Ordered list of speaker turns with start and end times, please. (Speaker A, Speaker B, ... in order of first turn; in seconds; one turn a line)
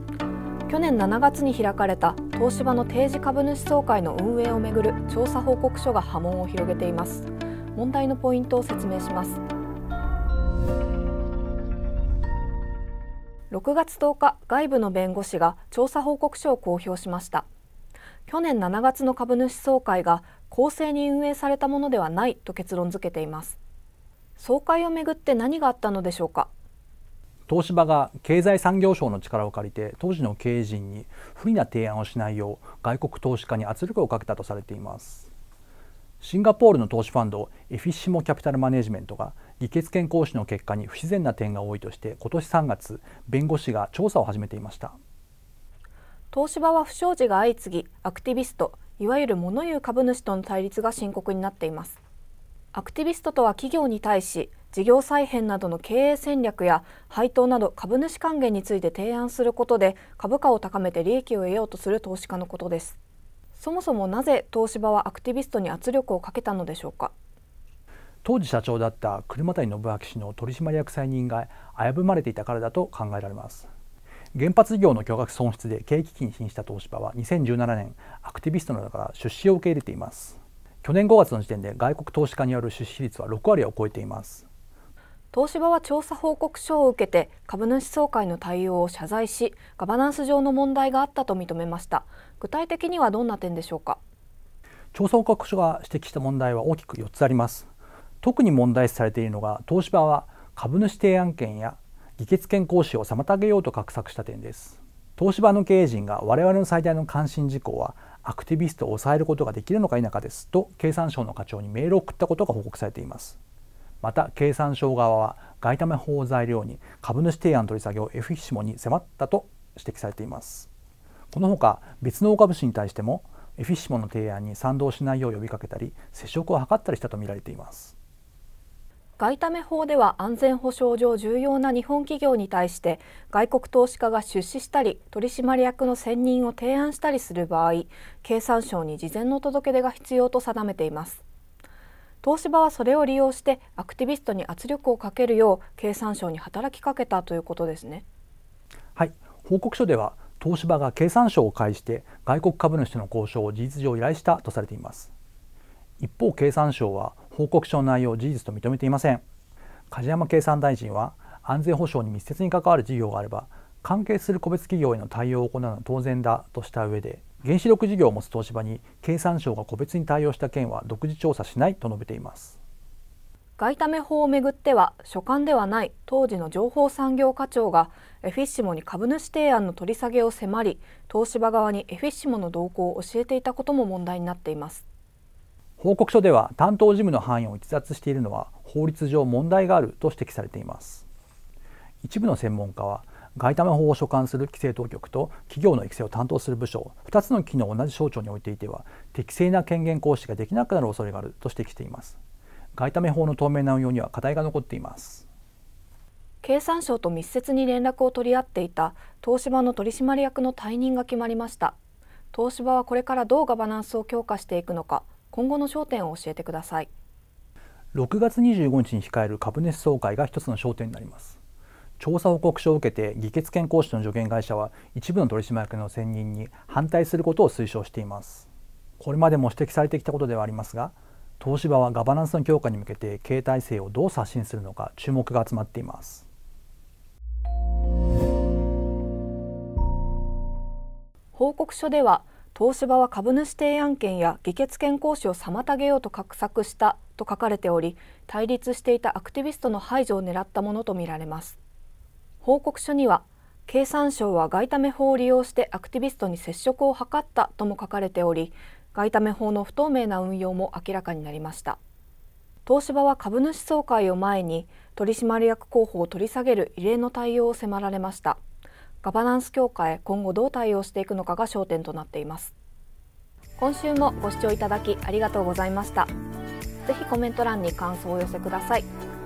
Speaker A: 0.7-9.4
Speaker A: 13.5-17.4
Speaker A: 18.3-23.6
Speaker A: 24.4-26.5
Speaker B: 27.5-35.3
Speaker B: 36.2-45.0
Speaker A: 46.3-52.0
Speaker A: 52.7-63.0
Speaker A: 63.5-67.1
Speaker B: 68.2-73.7
Speaker B: 74.3-84.5
Speaker A: 85.3-94.0
Speaker B: 94.9-97.7
Speaker B: 98.2-113.4
Speaker B: 114.0-120.7
Speaker B: 121.3-127.9
Speaker A: 129.2-141.2
Speaker A: 142.2-148.0
Speaker B: 148.9-155.1
Speaker B: 156.0-159.2
Speaker B: 159.9-172.6
Speaker A: 173.6-184.8
Speaker B: 185.8-191.0
Speaker B: 192.0-202.2
Speaker B: 202.7-205.2
Speaker A: 206.4-211.8
Speaker A: 212.3-216.9
Speaker B: 217.9-221.4
Speaker B: 222.0-228.5
Speaker B: 229.0-236.3
Speaker A: 241.3-251.6
Speaker A: 252.4-261.8
Speaker A: 262.6-268.4
Speaker A: 269.0-272.5
Speaker A: 273.6-276.1
Speaker A: 276.8-278.9